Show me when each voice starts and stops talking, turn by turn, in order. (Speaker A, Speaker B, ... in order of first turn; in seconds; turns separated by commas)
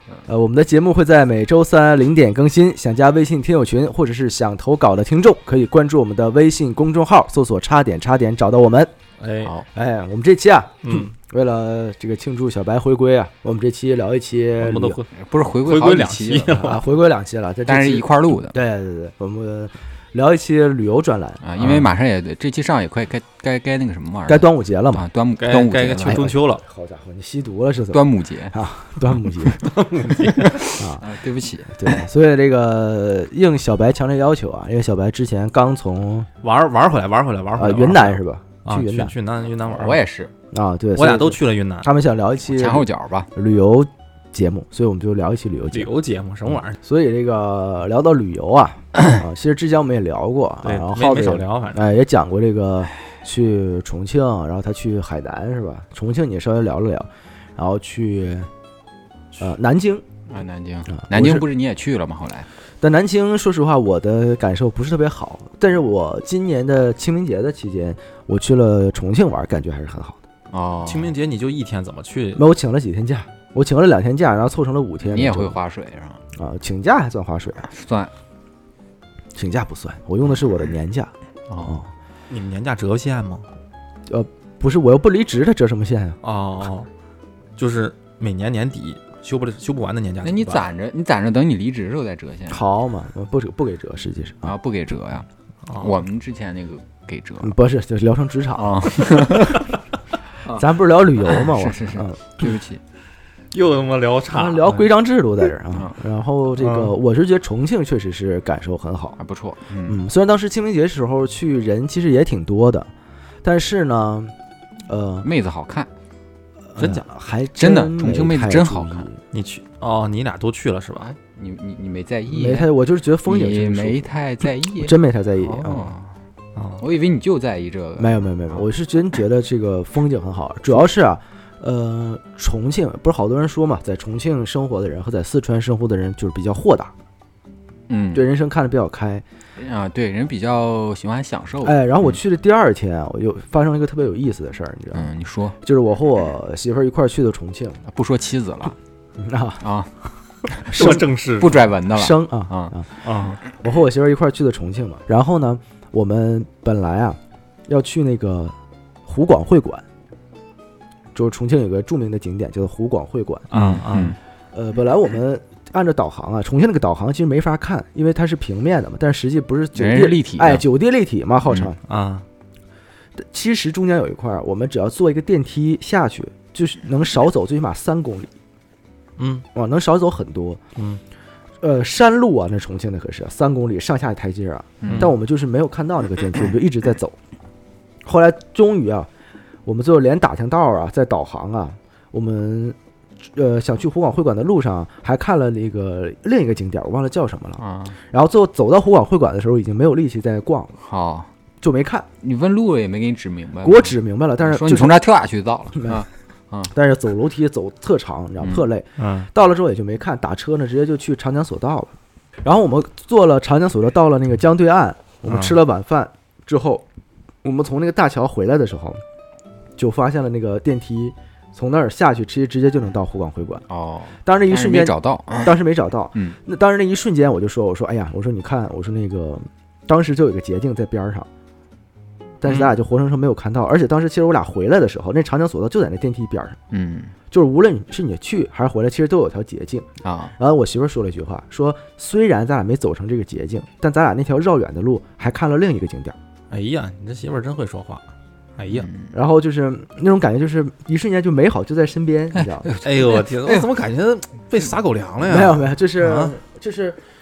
Speaker A: 0.3-8.9, Speaker B: 9.2-9.5, Speaker A: 9.7-15.0, Speaker B: 10.8-11.1, Speaker B: 14.6-15.1, Speaker C: 15.1-16.7, Speaker B: 15.6-16.8, Speaker A: 16.6-21.8, Speaker C: 17.6-18.5, Speaker C: 21.4-26.2, Speaker A: 24.3-25.0, Speaker B: 25.4-26.6, Speaker A: 26.0-29.6, Speaker C: 27.9-28.5, Speaker B: 29.6-30.6, Speaker C: 30.1-31.9, Speaker A: 30.7-31.1, Speaker A: 31.7-36.3, Speaker B: 36.4-40.0, Speaker A: 37.5-39.1, Speaker C: 39.6-40.3, Speaker A: 40.5-45.9, Speaker B: 41.0-41.9, Speaker C: 42.4-43.3, Speaker B: 45.7-46.8, Speaker A: 46.8-58.5, Speaker B: 50.6-51.9, Speaker A: 59.4-60.0, Speaker C: 60.3-62.5, Speaker A: 60.9-61.4, Speaker A: 62.8-70.2, Speaker C: 70.5-71.1, Speaker B: 70.8-72.4, Speaker A: 72.3-75.6, Speaker C: 75.0-76.2, Speaker A: 76.3-77.7, Speaker C: 77.6-78.1, Speaker A: 79.3-81.9, Speaker C: 81.5-81.8, Speaker B: 82.3-83.4, Speaker A: 84.1-86.2, Speaker B: 86.2-86.9, Speaker B: 87.6-90.7, Speaker C: 90.2-92.6, Speaker A: 92.5-94.5, Speaker C: 94.4-95.3, Speaker B: 95.7-96.0, Speaker C: 95.8-97.5, Speaker A: 97.4-99.2, Speaker C: 98.5-99.7, Speaker A: 100.5-102.2, Speaker C: 101.2-102.8, Speaker B: 103.5-104.8, Speaker A: 104.3-109.2, Speaker B: 106.6-106.9, Speaker C: 109.2-110.0, Speaker A: 109.8-112.9, Speaker A: 113.4-114.3, Speaker A: 114.9-115.3, Speaker C: 115.2-115.9, Speaker A: 116.7-119.2, Speaker B: 116.8-117.0, Speaker C: 117.6-119.1, Speaker B: 119.3-121.1, Speaker C: 121.0-122.7, Speaker A: 122.3-124.1, Speaker C: 123.2-126.1, Speaker A: 124.8-125.9, Speaker B: 126.5-126.8, Speaker C: 126.8-128.6, Speaker A: 128.0-136.9, Speaker C: 137.9-138.2, Speaker A: 138.1-139.2, Speaker C: 139.6-142.2, Speaker A: 141.6-145.1, Speaker C: 144.9-145.6, Speaker A: 145.6-147.8, Speaker C: 147.9-148.8, Speaker A: 149.2-149.6, Speaker C: 149.6-149.9, Speaker C: 150.5-152.7, Speaker B: 150.7-151.6, Speaker A: 150.7-151.0, Speaker A: 151.9-152.9, Speaker B: 153.0-153.4, Speaker A: 153.5-158.5, Speaker A: 159.1-159.8, Speaker A: 161.1-163.5, Speaker B: 163.5-164.2, Speaker C: 163.5-164.2, Speaker A: 164.5-171.8, Speaker C: 169.7-170.6, Speaker B: 171.8-172.2, Speaker A: 173.2-178.3, Speaker B: 179.2-179.4, Speaker A: 179.5-180.6, Speaker A: 181.6-187.2, Speaker C: 184.8-185.1, Speaker B: 184.8-185.1, Speaker A: 188.0-189.1, Speaker A: 189.6-192.8, Speaker A: 193.3-200.7, Speaker C: 197.6-197.9, Speaker C: 200.8-201.3, Speaker A: 201.6-202.1, Speaker C: 202.2-206.7, Speaker A: 203.6-205.0, Speaker A: 206.7-211.9, Speaker B: 209.0-209.3, Speaker A: 212.4-216.8, Speaker B: 215.2-215.6, Speaker A: 217.4-219.0, Speaker A: 219.8-223.6, Speaker C: 223.7-225.6, Speaker A: 224.2-231.3, Speaker A: 232.4-236.6, Speaker C: 236.7-237.1, Speaker A: 237.3-246.1, Speaker C: 240.0-240.3, Speaker B: 246.5-248.0, Speaker B: 248.6-248.9, Speaker C: 248.7-249.1, Speaker A: 249.1-252.7, Speaker C: 252.3-253.7, Speaker B: 252.7-256.3, Speaker A: 255.2-257.0